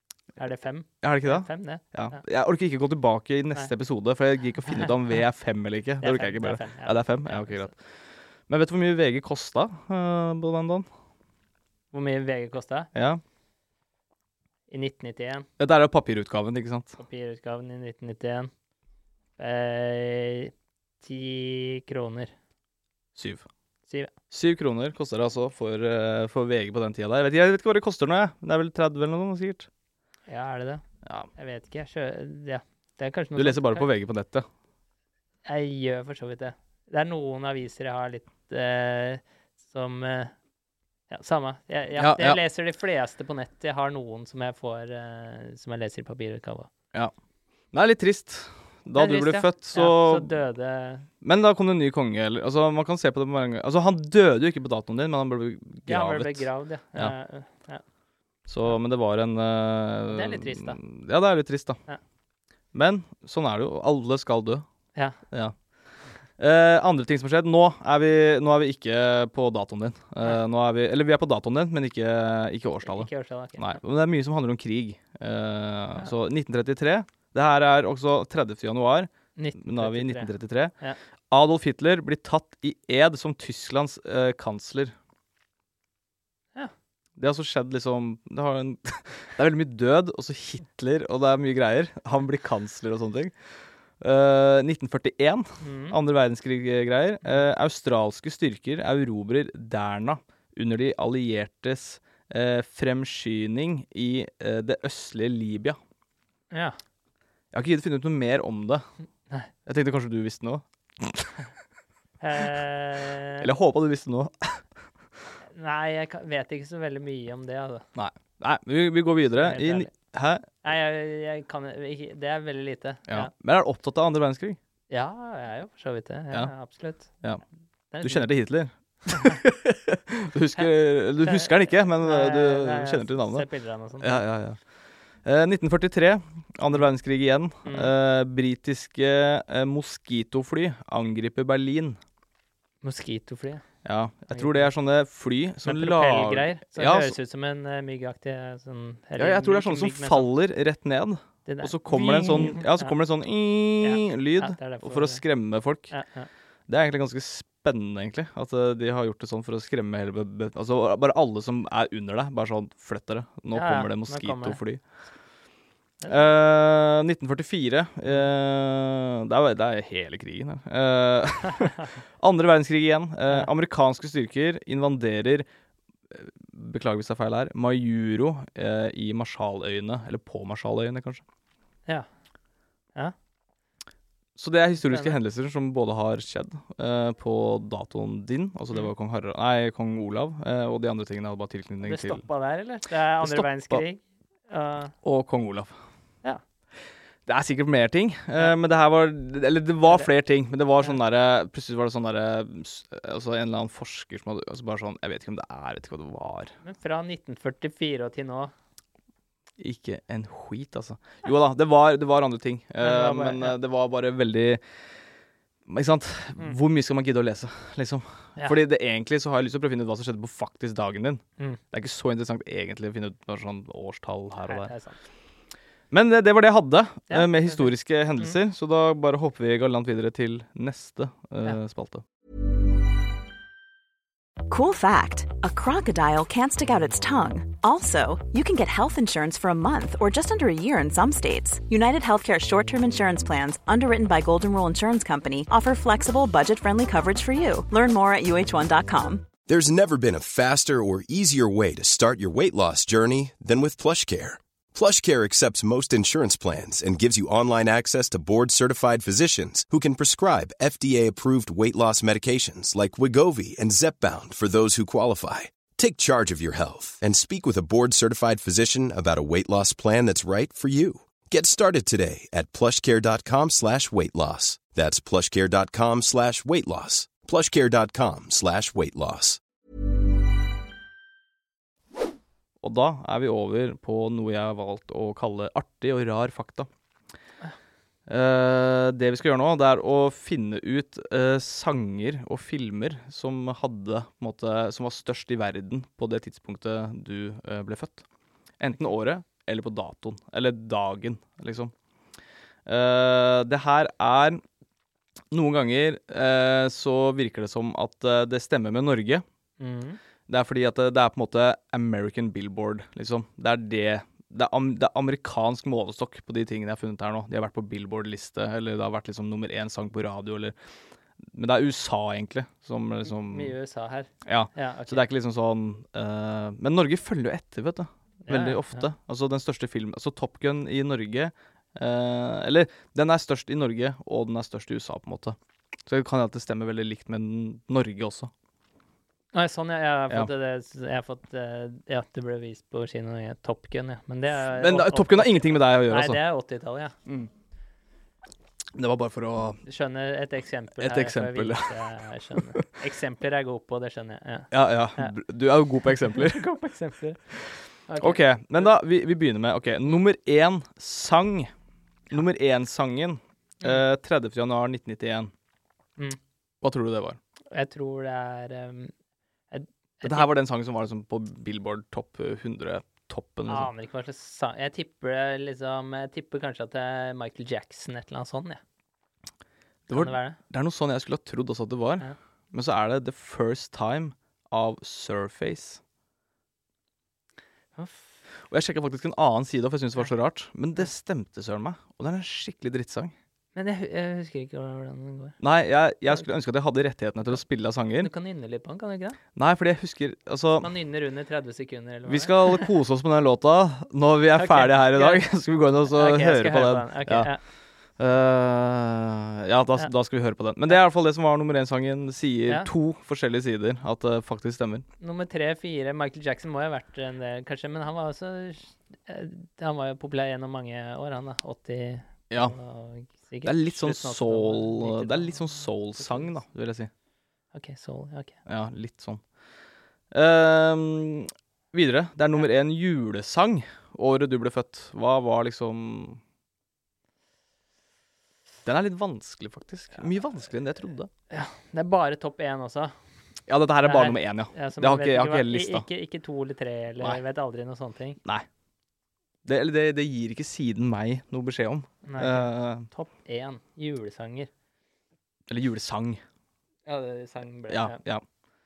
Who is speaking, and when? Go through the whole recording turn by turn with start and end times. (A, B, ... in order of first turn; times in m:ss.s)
0:00.4-0:02.2 A
0:01.0-0:07.7 B
0:06.0-0:07.7 A
0:08.5-0:10.9 B
0:11.9-0:12.9 A
0:12.9-0:13.2 B
0:14.7-0:15.5 A
0:15.6-0:17.0 B
0:17.0-0:18.5 A
0:19.4-0:22.3 A
0:23.2-0:23.4 B
0:24.3-0:29.7 B
0:30.3-0:30.8 A
0:31.0-0:31.3 B
0:31.4-0:33.9 A
0:33.4-0:34.4 B
0:35.4-0:40.3 A
0:41.1-0:46.7 A
0:42.0-0:42.4 B
0:47.7-0:50.3 B
0:48.9-0:51.1 A
0:51.2-0:57.1 B
0:55.9-0:57.8 A
0:58.5-1:01.8 B
1:00.1-1:00.8 A
1:02.7-1:04.6 B
1:04.9-1:05.2 A
1:05.3-1:05.6 B
1:06.4-1:20.7 B
1:12.8-1:13.8 A
1:19.4-1:21.0 A
1:21.3-1:24.9 B
1:27.2-1:33.3 B
1:34.0-1:45.8 B
1:35.6-1:36.0 A
1:46.5-1:46.8 A
1:47.5-1:48.8 B
1:49.6-1:51.3 B
1:52.2-1:53.5 A
1:53.4-1:54.6 B
1:55.5-1:57.8 A
1:57.9-2:00.5 B
1:59.4-1:59.9 A
2:00.6-2:03.3 A
2:03.1-2:04.6 B
2:04.9-2:07.1 A
2:07.9-2:08.3 A
2:08.0-2:13.5 B
2:09.1-2:09.4 A
2:11.2-2:14.2 A
2:14.0-2:14.6 B
2:15.2-2:22.0 B
2:17.6-2:17.9 A
2:22.8-2:23.6 A
2:23.8-2:27.2 B
2:24.3-2:24.7 A
2:25.6-2:30.3 A
2:29.2-2:35.9 B
2:31.4-2:32.9 A
2:33.8-2:35.2 A
2:35.9-2:36.3 A
2:36.7-2:44.8 B
2:43.5-2:44.6 A
2:46.1-2:55.4 B
2:56.1-3:01.2 B
3:04.4-3:12.2 B
3:04.8-3:05.2 A
3:11.8-3:14.9 A
3:13.2-3:13.8 B
3:15.0-3:15.7 B
3:17.2-3:26.5 B
3:26.6-3:28.5 A
3:29.6-3:34.6 B
3:32.8-3:33.6 A
3:35.7-3:44.7 B
3:44.4-3:45.0 A
3:45.9-3:52.0 B
3:47.1-3:47.7 A
3:54.5-4:09.3 C
4:09.4-4:39.4 D
4:42.6-4:46.7 B
4:48.1-4:58.0 B
4:58.6-5:01.7 B
5:02.6-5:04.4 B
5:05.3-5:09.2 B
5:09.6-5:10.0 A
5:10.3-5:20.5 B
5:21.3-5:23.5 B
5:23.1-5:25.0 A
5:24.2-5:38.3 B
5:28.2-5:28.8 A
5:39.3-5:47.0 A
5:44.3-5:46.2 B
5:48.7-5:49.6 B
5:49.6-5:55.2 A
5:50.8-5:52.6 B
5:54.5-5:56.4 B
5:56.0-5:57.2 A
5:57.9-5:58.2 A
5:58.0-6:01.5 B
6:02.1-6:05.3 B
6:06.6-6:07.2 B
6:07.5-6:08.9 A
6:09.5-6:10.3 A
6:10.0-6:13.7 B
6:13.5-6:18.6 A
6:19.9-6:25.8 B
6:19.9-6:20.4 A
6:27.8-6:28.0 A
6:28.5-6:33.1 B
6:33.5-6:35.4 A
6:35.4-6:38.1 B
6:38.0-6:39.2 A
6:39.4-6:40.7 B
6:40.6-6:42.7 A
6:42.1-6:47.3 B
6:44.4-6:45.2 A
6:45.9-6:47.4 A
6:48.0-6:54.8 B
6:55.0-7:06.4 A
7:03.4-7:06.9 B
7:07.5-7:08.4 A
7:08.4-7:09.2 B
7:10.1-7:16.2 B
7:18.6-7:21.1 B
7:21.3-7:22.9 A
7:23.5-7:25.9 B
7:23.8-7:28.2 A
7:29.4-7:32.9 B
7:32.0-7:34.5 A
7:35.5-7:36.2 B
7:36.8-7:38.0 A
7:37.7-7:38.2 B